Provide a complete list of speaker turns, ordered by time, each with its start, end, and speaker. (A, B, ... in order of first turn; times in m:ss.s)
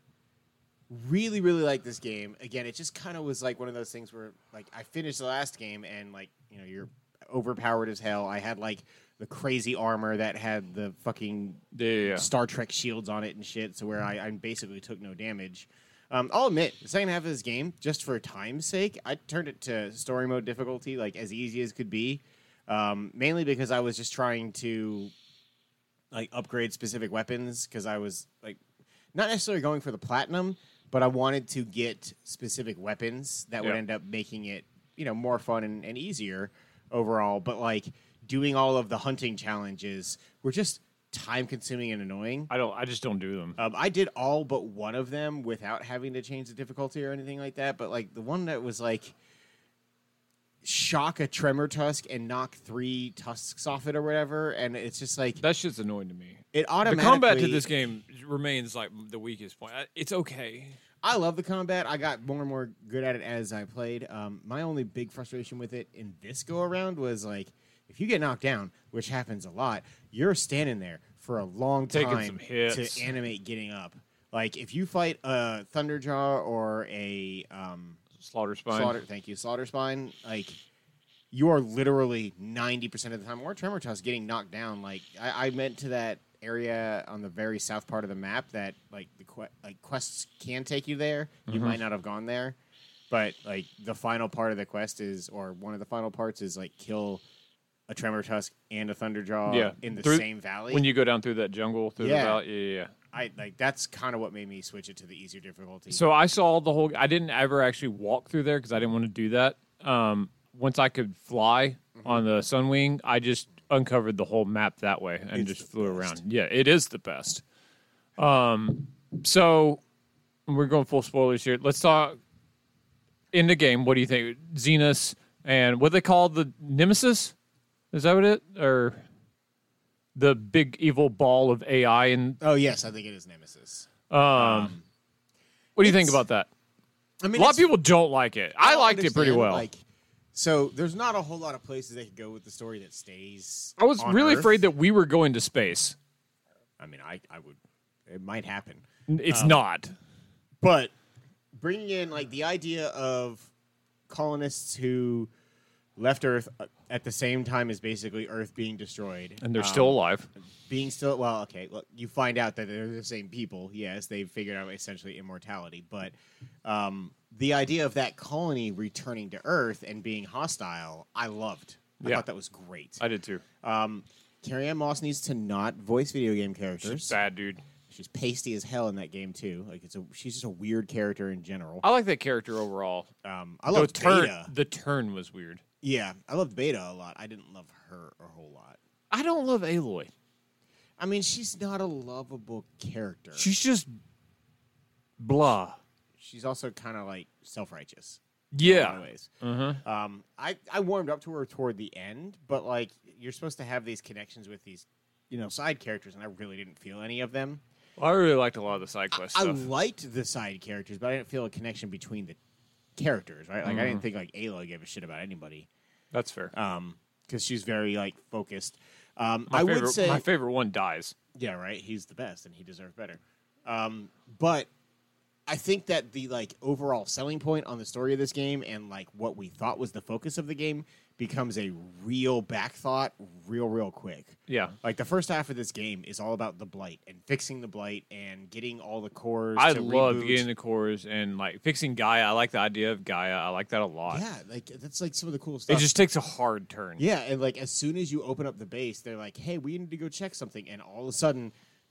0:00.9-0:25.1 A
0:11.7-0:12.3 B
0:26.1-0:28.6 A
0:29.1-0:42.5 A
0:42.5-0:43.6 B
0:43.6-0:49.1 A
0:50.6-0:55.4 A
0:55.4-1:00.8 B
0:56.5-0:57.7 A
1:01.0-1:18.0 A
1:11.9-1:13.1 B
1:18.2-1:19.0 B
1:18.7-1:20.6 A
1:21.3-1:32.6 A
1:31.5-1:31.8 B
1:33.1-1:37.2 A
1:37.9-1:40.9 A
1:39.5-1:42.9 B
1:42.0-1:42.4 A
1:43.1-1:46.0 A
1:45.9-1:57.4 B
1:52.0-1:52.2 A
1:55.3-1:56.2 A
1:58.2-1:59.8 B
2:00.5-2:02.2 B
2:03.3-2:07.3 B
2:07.9-2:09.0 B
2:10.2-2:12.4 B
2:12.4-2:14.8 A
2:14.1-2:14.7 B
2:15.8-2:16.5 B
2:15.8-2:16.2 A
2:17.2-2:17.7 A
2:17.3-2:19.7 B
2:18.6-2:19.8 A
2:20.3-2:24.6 A
2:23.8-2:26.0 B
2:26.8-2:29.6 A
2:29.1-2:29.9 B
2:30.6-2:30.9 A
2:31.5-2:33.5 A
2:34.1-2:35.3 A
2:36.0-2:40.0 A
2:39.4-2:40.3 B
2:40.7-2:46.1 A
2:46.6-2:53.0 A
2:52.0-2:52.2 B
2:53.0-2:53.4 B
2:53.6-2:57.2 A
2:56.8-2:57.6 B
2:57.9-3:01.8 A
3:01.8-3:03.1 B
3:03.2-3:04.5 A
3:03.7-3:05.6 B
3:05.8-3:08.8 A
3:09.1-3:10.1 B
3:11.0-3:13.5 A
3:13.4-3:13.9 B
3:15.2-3:15.8 B
3:16.2-3:19.3 A
3:18.5-3:19.8 B
3:19.8-3:27.6 A
3:28.0-3:29.6 B
3:29.1-3:32.4 A
3:33.0-3:35.7 A
3:33.6-3:34.0 B
3:36.1-3:36.5 B
3:36.5-3:40.2 A
3:39.5-3:41.1 B
3:41.4-3:44.7 A
3:45.5-4:00.4 A
3:54.5-3:54.8 B
3:59.6-4:04.2 B
4:04.1-4:05.9 A
4:05.7-4:07.0 B
4:07.0-4:11.5 A